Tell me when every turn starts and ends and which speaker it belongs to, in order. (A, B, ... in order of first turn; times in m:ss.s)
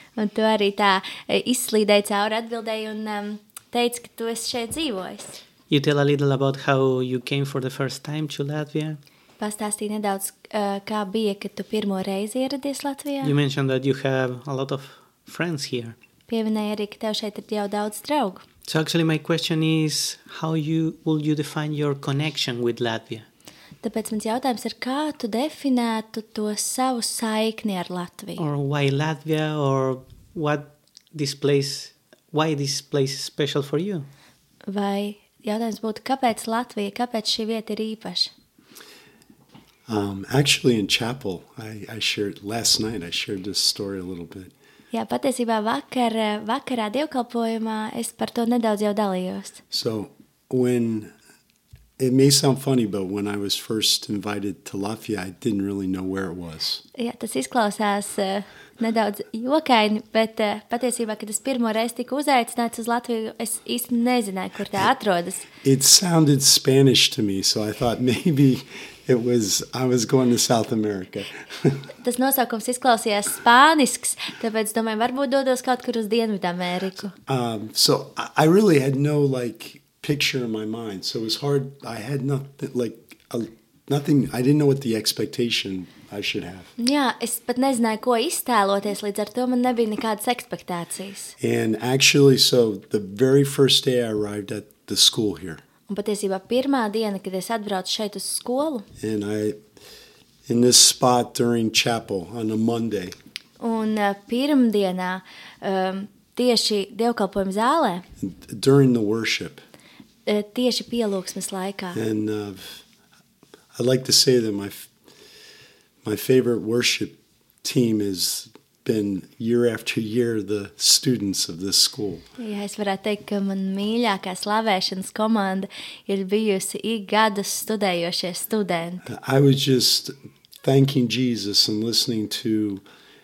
0:00.2-0:05.4 A
0:05.7-0:09.0 B
0:09.4-0:13.3 A
0:13.2-0:16.0 B
0:16.3-0:18.4 A
0:18.7-0:23.2 B
0:23.8-0:28.4 A
0:28.4-0:34.1 B
0:34.7-0:38.3 A
0:39.9-0:44.5 C
0:44.9-0:49.6 A
0:49.7-0:51.1 C
0:52.0-0:56.8 C
0:57.0-1:05.5 A
1:05.6-1:11.8 C
1:12.0-1:17.1 A
1:17.3-1:26.7 C
1:26.8-1:31.3 A
1:31.4-1:35.6 C
1:35.9-1:38.8 A
1:39.0-1:39.6 C
1:40.4-1:43.1 C
1:43.6-1:48.0 A
1:48.2-1:49.6 C
1:50.2-1:52.0 A
1:51.9-1:52.8 C
1:53.7-1:54.9 C
1:56.0-2:02.2 C
2:02.4-2:09.0 A
2:09.0-2:12.8 C